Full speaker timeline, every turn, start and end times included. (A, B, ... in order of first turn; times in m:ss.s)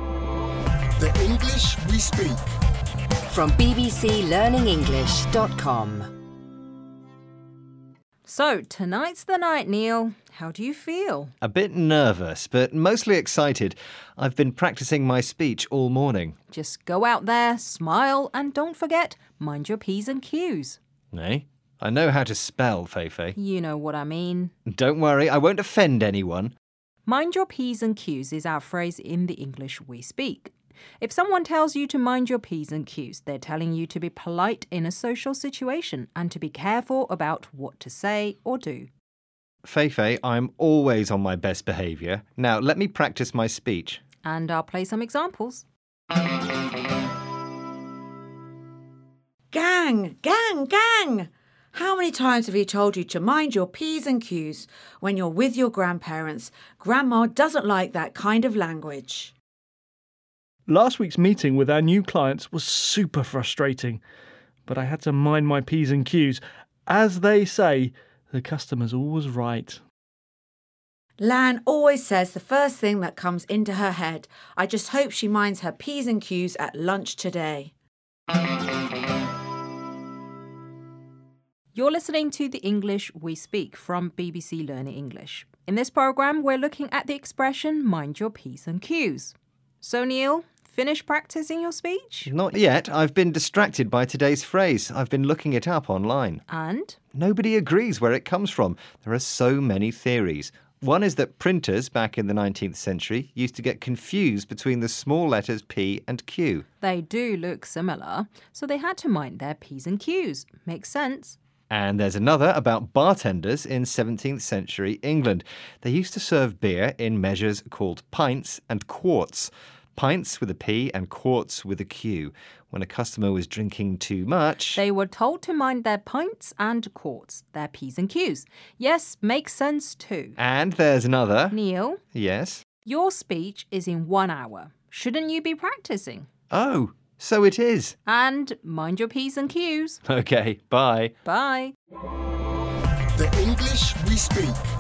0:01.0-0:02.4 A
0:03.3-0:06.1 B
0:08.2-0:11.3 C
0:11.4-0:16.4 D
0:16.5-0:20.8 C
0:21.1-0:23.4 D
0:23.4-0:24.5 C
0:24.6-0:26.5 D
0:27.0-0:38.9 C
0:39.6-0:44.0 D
0:44.2-0:45.6 C
0:49.5-0:59.3 E
1:00.7-1:04.0 F
1:04.7-1:09.8 F
1:11.2-1:17.7 E
1:21.7-1:32.3 C
1:32.2-1:36.4 D
1:36.5-1:37.0 C
1:37.1-1:46.6 D
1:46.8-1:51.4 C
1:51.7-2:04.8 D
2:04.7-2:10.4 C
2:10.4-2:11.6 D
2:11.5-2:12.0 C
2:12.1-2:12.6 D
2:12.8-2:16.3 C
2:16.5-2:18.0 D
2:18.0-2:20.0 C
2:20.0-2:21.1 D
2:21.2-2:21.7 C
2:23.2-2:24.6 A